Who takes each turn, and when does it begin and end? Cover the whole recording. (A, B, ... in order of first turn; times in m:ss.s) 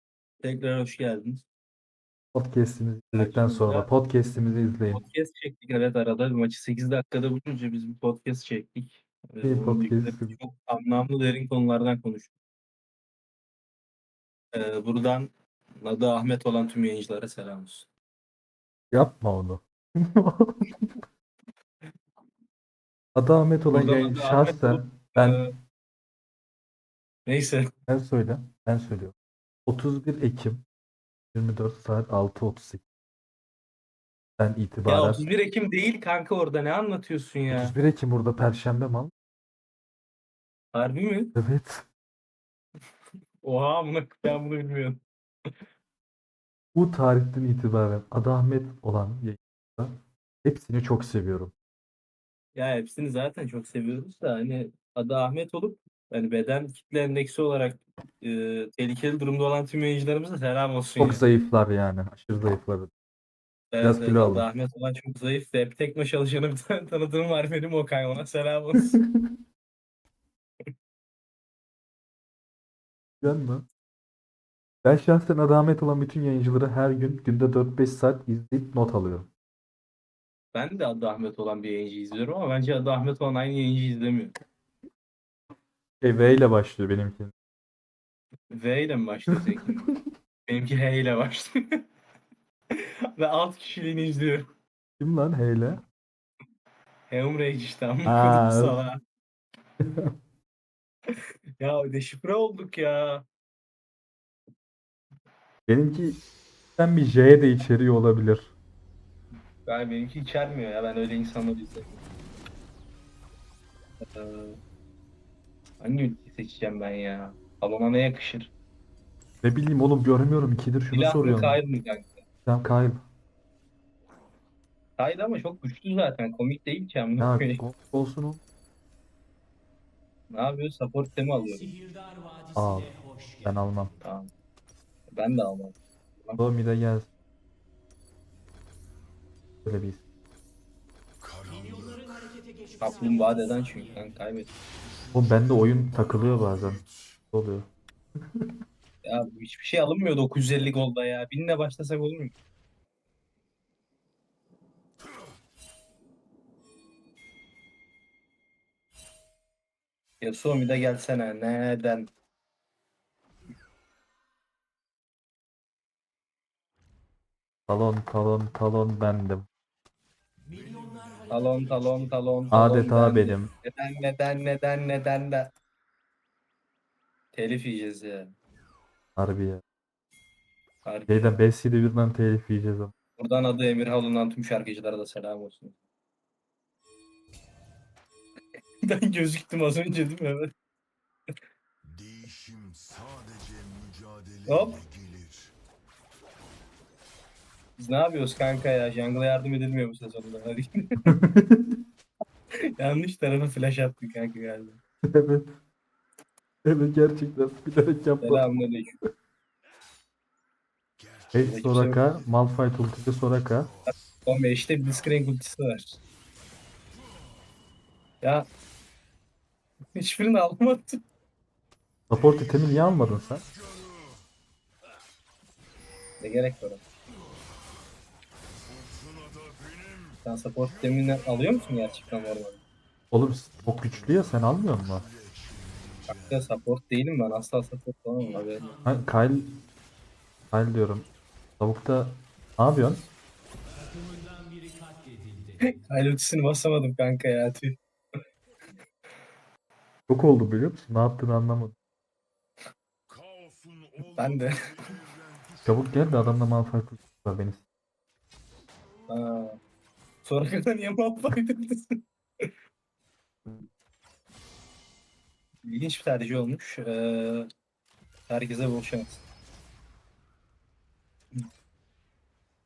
0:00.4-0:01.4 A
0:02.3-0:05.0 B
0:03.1-0:03.9 A
0:04.9-0:12.3 A
0:09.4-0:10.4 B
0:14.5-0:17.9 A
0:18.9-0:21.0 B
0:23.1-0:25.4 B
0:23.7-0:25.5 A
0:27.3-0:27.7 A
0:27.9-0:29.1 B
0:29.7-0:30.6 B
0:31.3-0:32.8 B
0:34.4-0:35.2 B
0:34.9-0:37.8 A
0:37.5-0:39.1 B
0:40.7-0:41.3 A
0:41.3-0:41.8 B
0:43.4-0:45.0 A
0:46.7-0:51.5 B
0:52.5-1:01.2 A
1:01.0-1:02.9 B
1:03.7-1:09.0 A
1:03.8-1:04.5 B
1:09.0-1:09.3 B
1:13.2-1:13.7 B
1:14.8-1:19.3 B
1:20.5-1:24.3 A
1:26.0-1:27.3 B
1:28.5-1:29.9 A
1:29.5-1:30.0 B
1:30.4-1:31.8 A
1:32.7-1:34.5 A
1:35.0-1:35.8 B
1:37.1-1:39.0 A
1:38.0-1:38.8 B
1:39.8-1:40.1 B
1:41.2-1:43.2 A
1:45.7-1:46.2 B
1:46.8-1:48.5 B
1:49.7-1:52.0 A
1:54.1-1:54.6 A
1:55.8-1:58.5 A
1:59.4-2:01.6 B
2:00.9-2:02.2 A
2:02.4-2:03.0 B
2:05.0-2:07.6 A
2:07.2-2:08.4 B
2:10.3-2:11.8 A
2:12.5-2:13.9 B
2:14.0-2:14.3 A
2:15.1-2:16.4 A
2:16.4-2:17.1 B
2:19.6-2:20.0 B
2:21.2-2:22.3 C
2:22.8-2:24.5 A
2:24.8-2:27.2 C
2:25.1-2:26.8 B
2:27.3-2:27.7 B
2:29.0-2:32.3 A
2:40.2-2:42.1 A
2:47.7-2:49.5 B
2:50.4-2:53.5 C
2:51.3-2:55.5 A
2:52.5-2:53.5 B
2:57.3-2:58.3 A
2:59.2-2:59.6 B
3:00.8-3:01.3 A
3:01.1-3:02.9 B
3:03.2-3:05.8 A
3:08.8-3:10.5 A
3:11.8-3:15.5 C
3:14.5-3:14.8 A
3:17.8-3:21.1 A
3:21.0-3:21.8 B
3:22.8-3:24.8 A
3:25.0-3:25.5 B
3:26.6-3:28.5 B
3:28.2-3:28.9 A
3:31.0-3:32.7 C
3:31.3-3:33.7 B
3:31.4-3:32.0 A
3:33.4-3:34.1 C
3:34.2-3:36.0 A
3:39.9-3:41.0 A
3:42.1-3:43.4 B
3:42.1-3:44.2 C
3:46.2-3:46.8 A
3:48.6-3:50.2 C
3:50.2-3:52.6 A
3:51.1-3:52.1 C
3:53.1-3:55.0 B
3:53.5-3:56.5 C
3:56.1-3:58.7 A
3:58.8-3:59.5 B
4:00.5-4:01.1 B
4:01.6-4:03.1 B
4:05.6-4:07.8 A
4:10.1-4:11.7 B
4:13.1-4:16.3 C
4:14.2-4:14.6 A
4:15.6-4:17.6 B
4:19.1-4:19.6 A
4:20.2-4:22.5 A
4:25.6-4:27.5 A
4:28.3-4:29.2 A